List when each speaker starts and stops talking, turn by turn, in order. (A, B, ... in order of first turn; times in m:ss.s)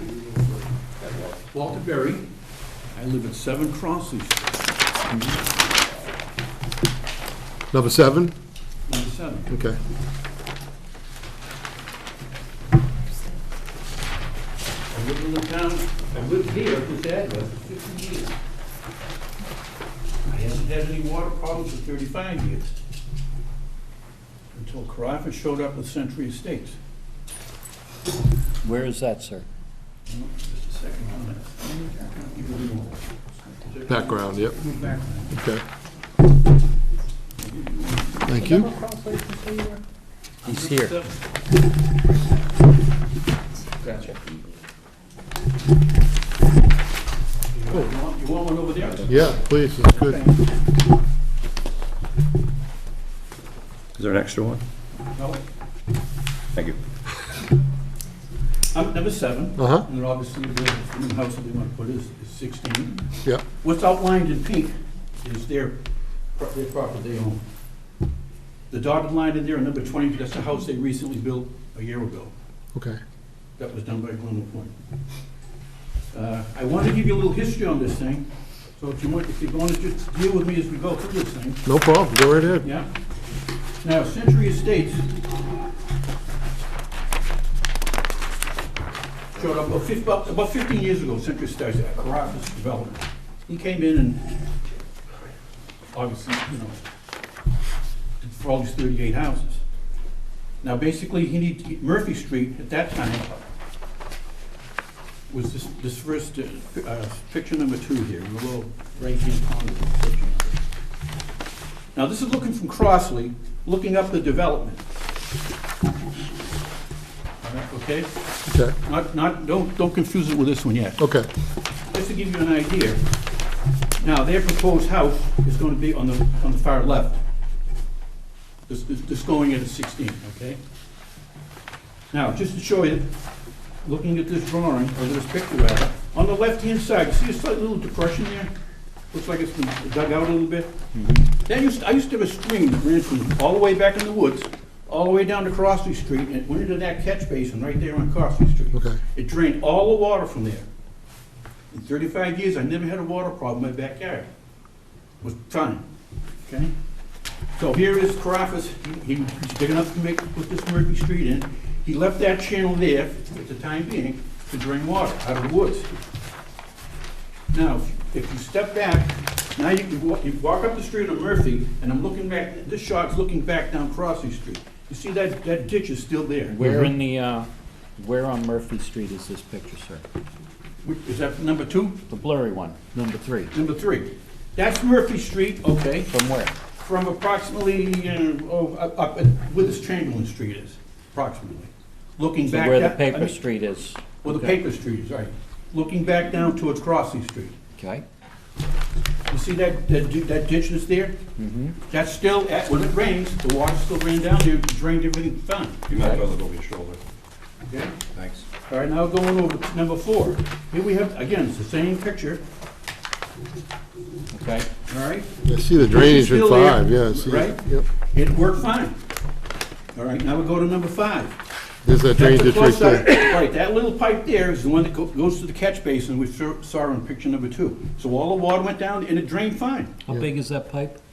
0:01.5-0:02.3 A
0:02.9-0:04.5 A
0:07.7-0:08.3 B
0:08.9-0:09.5 A
0:09.5-0:09.8 B
0:14.9-0:18.4 A
0:20.3-0:22.7 A
0:24.5-0:26.8 A
0:28.6-0:29.5 C
0:30.1-0:33.0 A
0:33.6-0:35.4 A
0:33.9-0:34.6 B
0:35.3-0:35.6 B
0:37.4-0:38.4 A
0:38.3-0:38.7 B
0:38.4-0:39.8 D
0:40.4-0:41.0 C
0:40.4-0:41.2 A
0:43.9-0:44.1 C
0:47.5-0:50.4 A
0:49.1-0:50.2 B
0:54.0-0:54.6 D
0:55.2-0:55.4 A
0:58.7-1:03.1 A
0:59.6-0:59.8 B
1:03.6-1:05.8 A
1:06.4-1:07.4 A
1:08.7-1:12.3 A
1:13.6-1:14.7 A
1:16.1-1:21.6 A
1:21.7-1:22.7 B
1:22.6-1:22.9 A
1:23.8-1:25.1 A
1:29.4-1:34.2 A
1:35.9-1:36.8 A
1:38.2-1:39.6 A
1:40.6-1:43.3 A
1:45.3-1:50.6 A
1:52.0-1:54.8 A
1:57.4-1:58.1 A
1:58.5-1:58.7 B
1:58.8-2:01.0 A
2:01.0-2:01.3 B
2:01.9-2:03.0 A
2:04.0-2:07.2 A
2:08.7-2:10.6 A
2:12.1-2:13.1 A
2:13.8-2:18.5 A
2:19.1-2:20.7 A
2:20.9-2:21.3 C
2:21.4-2:30.7 A
2:28.7-2:29.0 B
2:31.7-2:34.3 A
2:35.2-2:35.8 A
2:36.5-2:36.7 A
2:37.6-2:45.9 A
2:47.5-2:56.6 A
2:56.5-3:00.0 C
2:56.6-2:56.9 B
3:00.8-3:02.0 A
3:02.1-3:03.5 C
3:03.5-3:06.1 A
3:06.0-3:06.5 C
3:06.8-3:13.4 A
3:12.5-3:14.6 C
3:14.2-3:17.6 A
3:17.8-3:18.0 C
3:19.3-3:21.2 A
3:21.4-3:21.8 C
3:21.9-3:26.0 A
3:25.9-3:27.0 D
3:25.9-3:26.2 C
3:27.6-3:28.0 A
3:28.7-3:32.4 A
3:34.3-3:34.7 C
3:34.9-3:39.0 A
3:35.4-3:37.9 B
3:39.9-3:41.4 A
3:41.8-3:43.2 B
3:42.1-3:50.0 A
3:50.0-3:51.0 C